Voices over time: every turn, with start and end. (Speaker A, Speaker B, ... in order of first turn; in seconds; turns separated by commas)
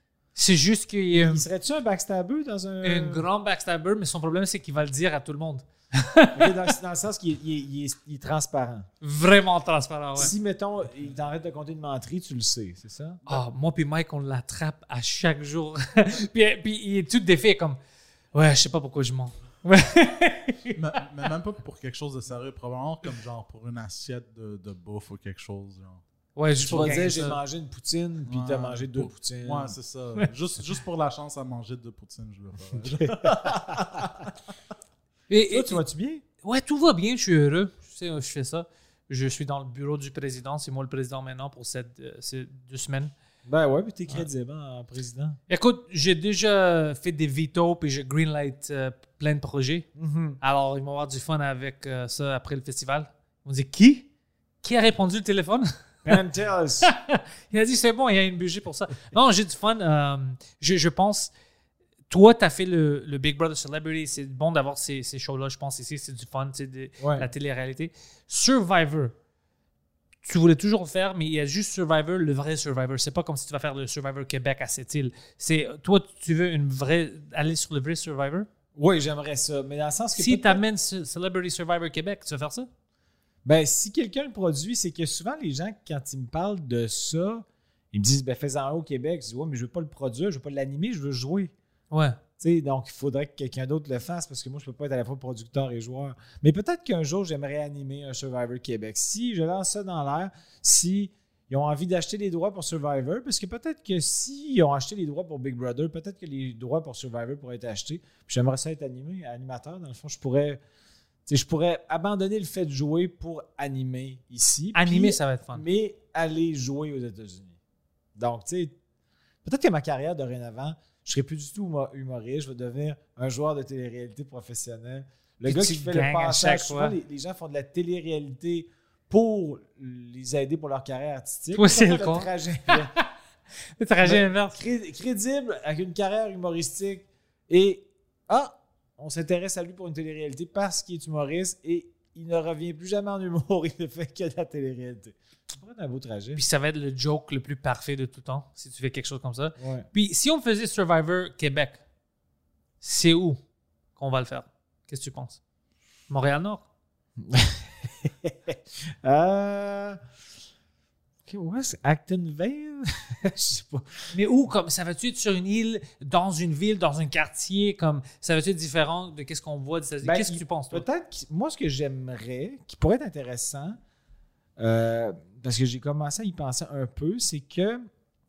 Speaker A: 0.3-1.4, Speaker B: 1.1-3.2, Speaker A: 2.8-6.5, Speaker B: 6.3-8.9, Speaker A: 9.0-10.3, Speaker B: 10.2-13.3, Speaker A: 13.3-17.8, Speaker A: 18.3-20.7, Speaker C: 20.7-26.0, Speaker A: 26.4-27.4, Speaker B: 26.6-29.8, Speaker C: 28.2-34.3, Speaker B: 33.0-34.3, Speaker A: 35.3-35.8, Speaker B: 35.5-36.2, Speaker A: 36.4-43.1, Speaker B: 43.5-45.4, Speaker A: 45.5-49.9, Speaker B: 50.0-50.4, Speaker A: 50.4-54.1, Speaker A: 54.6-56.1, Speaker B: 56.0-56.9, Speaker A: 56.8-61.3, Speaker A: 62.1-69.1, Speaker B: 67.0-67.3, Speaker A: 70.2-78.5, Speaker B: 78.7-80.6, Speaker A: 80.2-82.7, Speaker B: 83.4-91.5, Speaker A: 91.9-92.2, Speaker B: 92.4-110.6, Speaker B: 111.2-117.6, Speaker A: 114.7-115.6, Speaker B: 118.2-118.7, Speaker B: 119.4-132.9, Speaker A: 125.5-127.0, Speaker A: 131.5-133.0, Speaker A: 133.8-134.6, Speaker B: 134.0-146.4, Speaker A: 146.3-151.8, Speaker B: 149.6-149.9, Speaker A: 152.8-153.4, Speaker A: 153.9-155.4, Speaker A: 156.1-156.7, Speaker B: 157.2-160.0, Speaker B: 161.3-163.9, Speaker A: 164.1-170.8, Speaker B: 170.0-173.8, Speaker B: 174.6-177.8